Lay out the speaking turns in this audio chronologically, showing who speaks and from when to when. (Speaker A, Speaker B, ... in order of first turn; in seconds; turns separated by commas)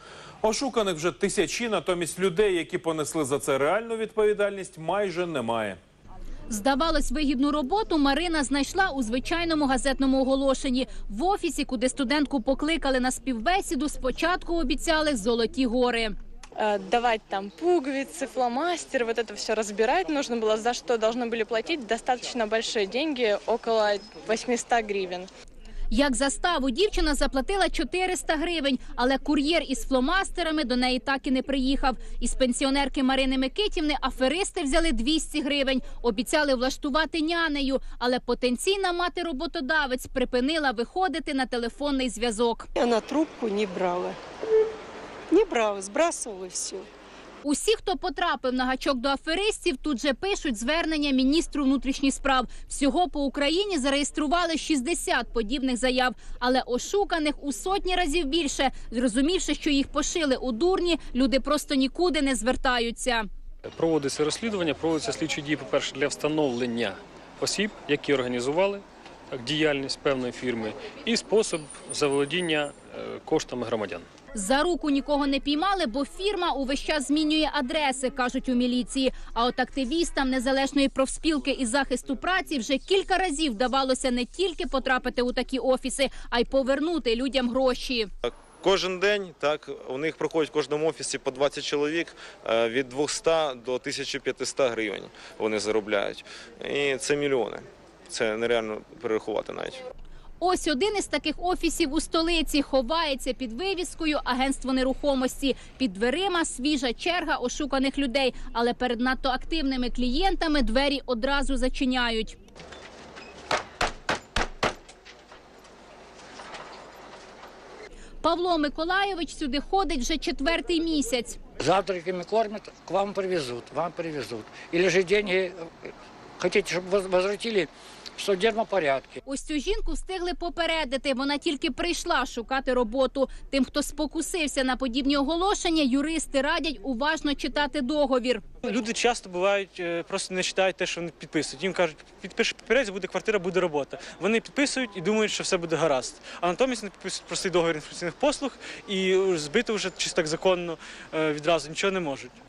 Speaker A: 0.4-5.8, Speaker B: 6.5-16.1, Speaker C: 16.6-25.3, Speaker B: 25.9-42.7, Speaker D: 42.8-44.2, Speaker D: 45.3-46.9, Speaker B: 47.4-63.3, Speaker E: 63.7-74.0, Speaker B: 74.3-88.1, Speaker F: 88.2-99.8, Speaker B: 100.4-112.4, Speaker B: 118.2-121.4, Speaker G: 121.6-129.2, Speaker B: 129.2-138.4, Speaker H: 138.6-152.4